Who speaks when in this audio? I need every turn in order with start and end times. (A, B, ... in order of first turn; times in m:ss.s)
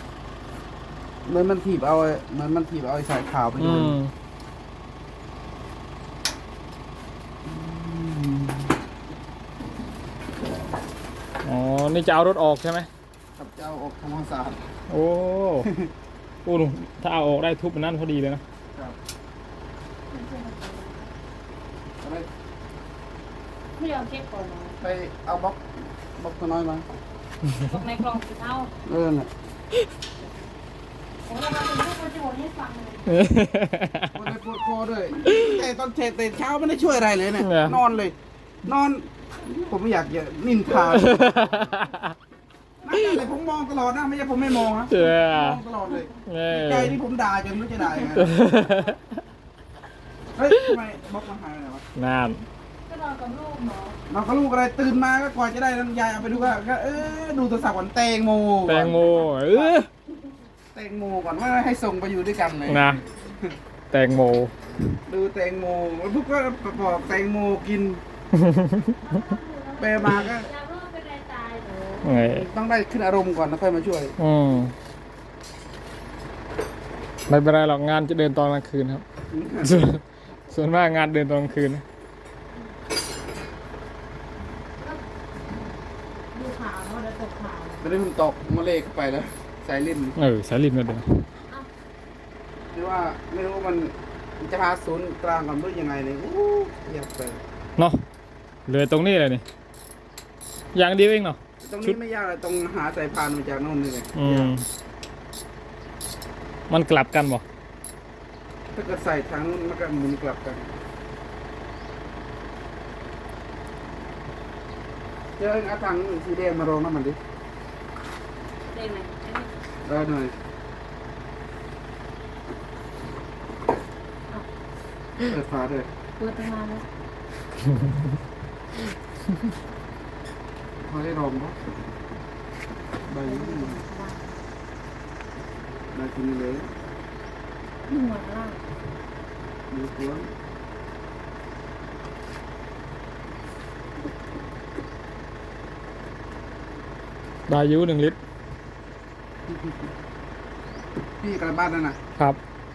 0:01.2-0:04.0 A
0:03.6-0:04.1 B
0:07.4-0:08.6 A
0:11.4-0:12.9 B
0:13.4-0:14.6 A
0:14.9-0:15.7 B
0:15.6-0:15.9 A
0:16.4-0:18.4 B
0:20.1-0:21.1 C
0:22.0-0:22.3 A
0:23.8-0:24.8 C
0:24.8-0:25.6 A
0:26.2-0:26.8 A
0:27.5-0:28.7 C
0:28.8-0:29.3 A
0:31.2-0:33.3 C
0:33.1-0:34.2 B
0:34.1-0:41.5 A
0:35.3-0:35.5 B
0:37.4-0:37.8 B
0:40.8-0:42.1 B
0:42.8-0:48.4 A
0:44.9-0:45.6 B
0:46.2-0:47.0 B
0:48.1-0:49.0 B
0:50.4-0:51.8 A
0:50.5-0:50.8 B
0:52.0-0:52.4 B
0:52.9-0:54.0 C
0:54.1-0:59.8 A
0:58.6-0:59.9 B
1:00.7-1:03.5 A
1:02.7-1:03.0 B
1:03.9-1:04.5 B
1:05.1-1:08.0 A
1:08.3-1:09.0 B
1:09.0-1:12.1 C
1:09.8-1:10.5 A
1:12.0-1:12.5 B
1:12.1-1:14.1 A
1:14.2-1:14.7 B
1:17.3-1:19.0 B
1:19.3-1:19.9 A
1:19.6-1:20.0 B
1:20.3-1:20.8 C
1:20.5-1:21.8 B
1:26.3-1:27.8 C
1:27.8-1:30.2 A
1:30.2-1:31.2 B
1:32.7-1:37.4 A
1:38.7-1:39.4 B
1:40.7-1:42.0 B
1:41.6-1:44.5 A
1:44.1-1:44.6 B
1:46.7-1:47.4 B
1:48.7-1:50.7 A
1:55.4-1:57.2 A
1:58.7-1:59.5 C
1:59.8-2:00.3 A
2:05.2-2:05.9 A
2:06.2-2:06.8 C
2:10.8-2:11.6 A
2:13.1-2:13.8 A
2:13.2-2:14.4 C
2:15.9-2:16.7 A
2:17.9-2:18.6 C
2:19.7-2:20.3 A
2:27.5-2:28.2 B
2:31.2-2:32.0 A